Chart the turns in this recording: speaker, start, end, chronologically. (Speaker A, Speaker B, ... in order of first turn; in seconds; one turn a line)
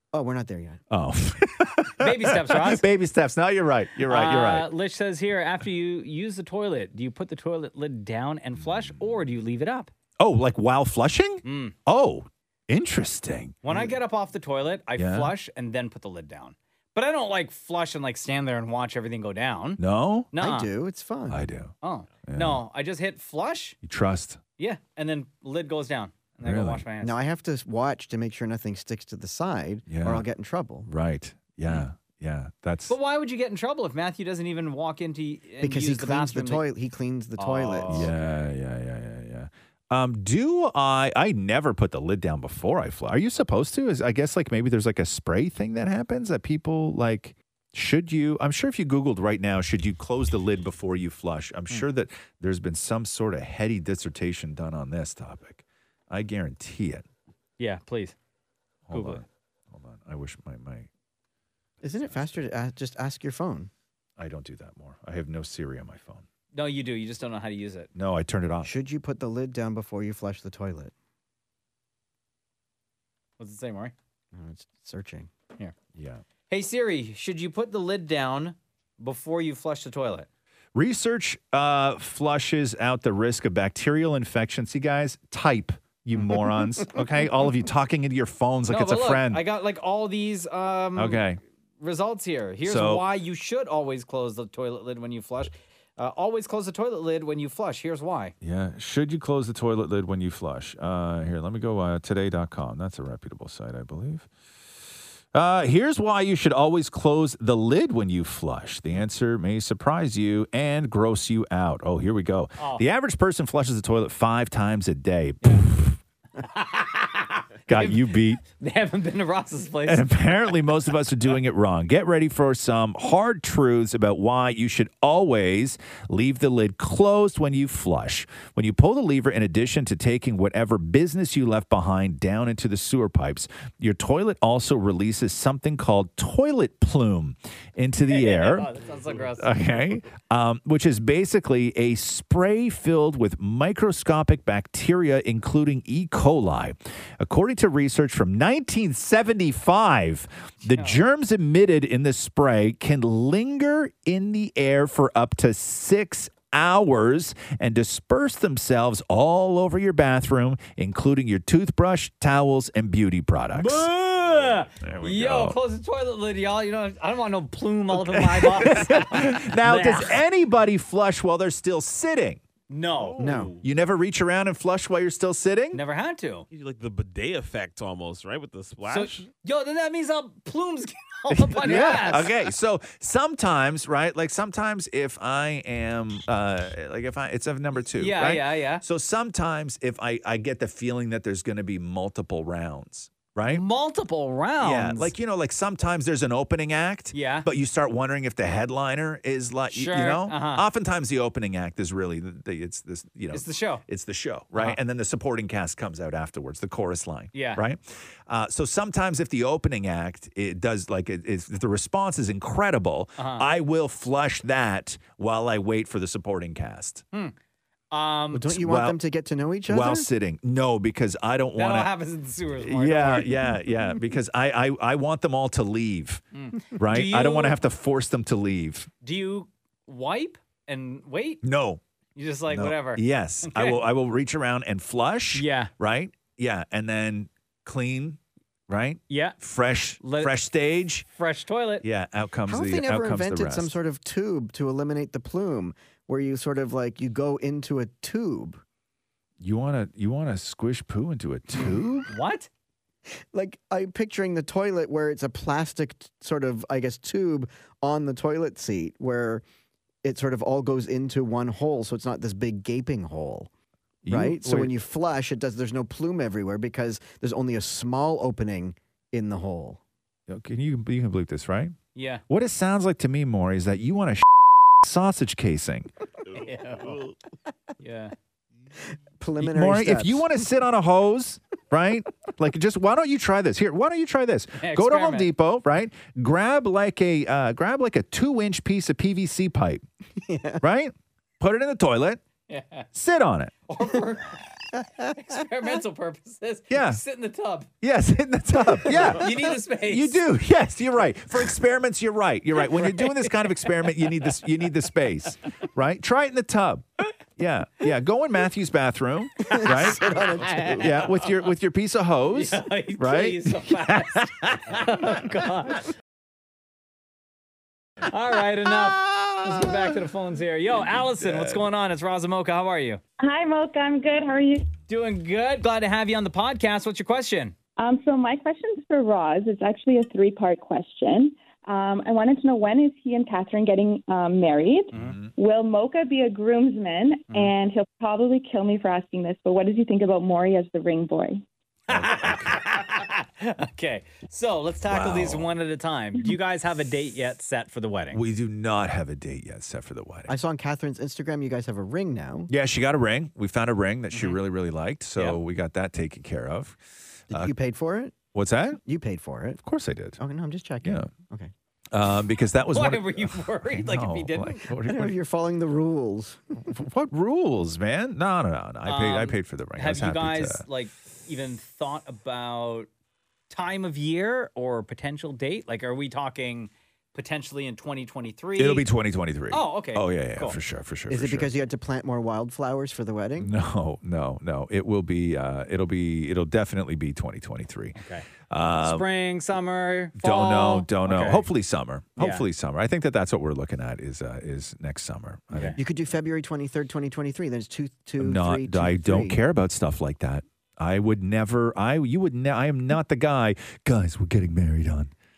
Speaker A: 0.1-0.8
Speaker B: 0.9-4.7
Speaker C: 2.0-2.8
Speaker C: 4.1-9.9
Speaker B: 10.2-13.6
Speaker C: 11.4-11.7
Speaker C: 13.6-19.8
Speaker A: 13.7-13.9
Speaker B: 15.0-15.3
Speaker B: 19.8-20.3
Speaker C: 20.3-20.7
Speaker A: 20.4-21.4
Speaker B: 21.3-21.7
Speaker C: 21.8-23.8
Speaker B: 22.2-22.6
Speaker B: 23.8-24.4
Speaker C: 24.6-27.1
Speaker B: 26.4-26.9
Speaker A: 27.0-30.9
Speaker B: 29.9-30.2
Speaker B: 30.9-32.9
Speaker C: 32.9-36.6
Speaker A: 35.6-38.1
Speaker C: 37.4-38.1
Speaker B: 37.9-57.0
Speaker C: 57.6-58.1
Speaker B: 58.9-60.9
Speaker C: 58.9-59.2
Speaker A: 61.8-63.7
Speaker B: 62.0-62.4
Speaker B: 64.2-66.2
Speaker C: 66.5-67.9
Speaker B: 67.9-68.7
Speaker A: 68.6-70.9
Speaker C: 73.4-73.9
Speaker A: 74.3-75.3
Speaker B: 75.9-76.2
Speaker C: 76.5-80.3
Speaker B: 80.7-89.4
Speaker C: 88.7-91.2
Speaker B: 91.0-91.4
Speaker C: 91.8-98.3
Speaker B: 92.6-93.1
Speaker B: 98.4-104.3
Speaker B: 105.3-116.0
Speaker C: 112.6-112.8
Speaker C: 116.4-120.2
Speaker B: 117.7-118.4
Speaker B: 119.8-138.7
Speaker C: 138.0-139.6
Speaker B: 139.3-163.9
Speaker C: 150.6-151.0
Speaker C: 163.5-170.2
Speaker B: 164.8-165.6
Speaker B: 167.9-172.4
Speaker C: 172.7-173.2
Speaker D: 172.9-173.6
Speaker A: 173.2-173.5
Speaker B: 173.6-175.8
Speaker C: 175.7-176.4
Speaker D: 176.5-179.3
Speaker C: 178.9-182.3
Speaker B: 181.3-193.6
Speaker C: 187.9-188.8
Speaker C: 193.4-195.1
Speaker B: 194.6-217.0
Speaker C: 197.1-197.5
Speaker C: 199.7-200.6
Speaker C: 203.3-203.8
Speaker C: 204.5-204.8
Speaker C: 207.3-207.6
Speaker C: 213.2-213.5
Speaker C: 217.9-218.4
Speaker A: 218.3-220.1
Speaker B: 218.5-219.0
Speaker B: 219.7-221.9
Speaker C: 221.6-223.4
Speaker B: 222.6-228.9
Speaker C: 226.3-227.6
Speaker C: 229.0-231.4
Speaker B: 231.4-231.8
Speaker C: 232.2-233.8
Speaker B: 232.5-241.1
Speaker C: 235.3-235.7
Speaker C: 239.1-239.4
Speaker C: 240.0-240.4
Speaker C: 241.2-241.8
Speaker B: 241.8-243.8
Speaker A: 242.5-248.6
Speaker B: 249.4-252.1
Speaker C: 252.1-252.5
Speaker A: 253.3-259.4
Speaker A: 260.0-263.5
Speaker B: 264.0-264.7
Speaker A: 264.1-269.8
Speaker B: 270.3-271.7
Speaker C: 271.9-272.2
Speaker B: 272.3-275.9
Speaker D: 276.2-277.1
Speaker C: 276.4-277.0
Speaker C: 277.8-278.1
Speaker A: 279.2-280.3
Speaker B: 279.4-289.8
Speaker C: 284.6-285.3
Speaker A: 290.2-290.6
Speaker B: 290.6-292.2
Speaker C: 292.5-292.9
Speaker B: 292.9-293.5
Speaker C: 293.7-294.4
Speaker A: 294.7-295.1
Speaker C: 295.1-297.7
Speaker B: 296.7-297.0
Speaker B: 297.8-315.2
Speaker C: 298.9-300.2
Speaker C: 302.7-304.2
Speaker A: 309.4-310.9
Speaker C: 309.5-311.4
Speaker C: 312.3-315.9
Speaker C: 318.0-323.0
Speaker B: 318.8-319.8
Speaker B: 321.2-321.6
Speaker E: 323.2-324.7
Speaker C: 324.9-327.5
Speaker E: 327.8-341.4
Speaker C: 334.9-335.2
Speaker B: 334.9-335.3
Speaker B: 341.9-342.7
Speaker C: 341.9-348.2
Speaker B: 344.9-345.5
Speaker B: 348.1-350.3
Speaker A: 350.3-352.5
Speaker B: 352.5-357.5
Speaker C: 354.1-354.4
Speaker A: 357.3-358.2
Speaker B: 358.3-358.8
Speaker A: 358.8-359.6
Speaker B: 359.6-360.2
Speaker A: 360.2-361.5
Speaker B: 360.8-361.1
Speaker B: 361.9-365.1
Speaker C: 362.7-364.6
Speaker A: 364.8-366.7
Speaker B: 366.6-370.6
Speaker C: 368.8-372.9
Speaker C: 373.5-378.9
Speaker B: 378.6-381.5
Speaker C: 379.5-380.6
Speaker A: 381.1-383.5
Speaker B: 383.4-388.0
Speaker C: 387.9-388.3
Speaker B: 388.5-389.1
Speaker C: 388.8-391.5
Speaker B: 390.1-395.8
Speaker C: 392.2-392.4
Speaker C: 395.5-395.8
Speaker A: 395.7-399.4
Speaker B: 398.2-405.1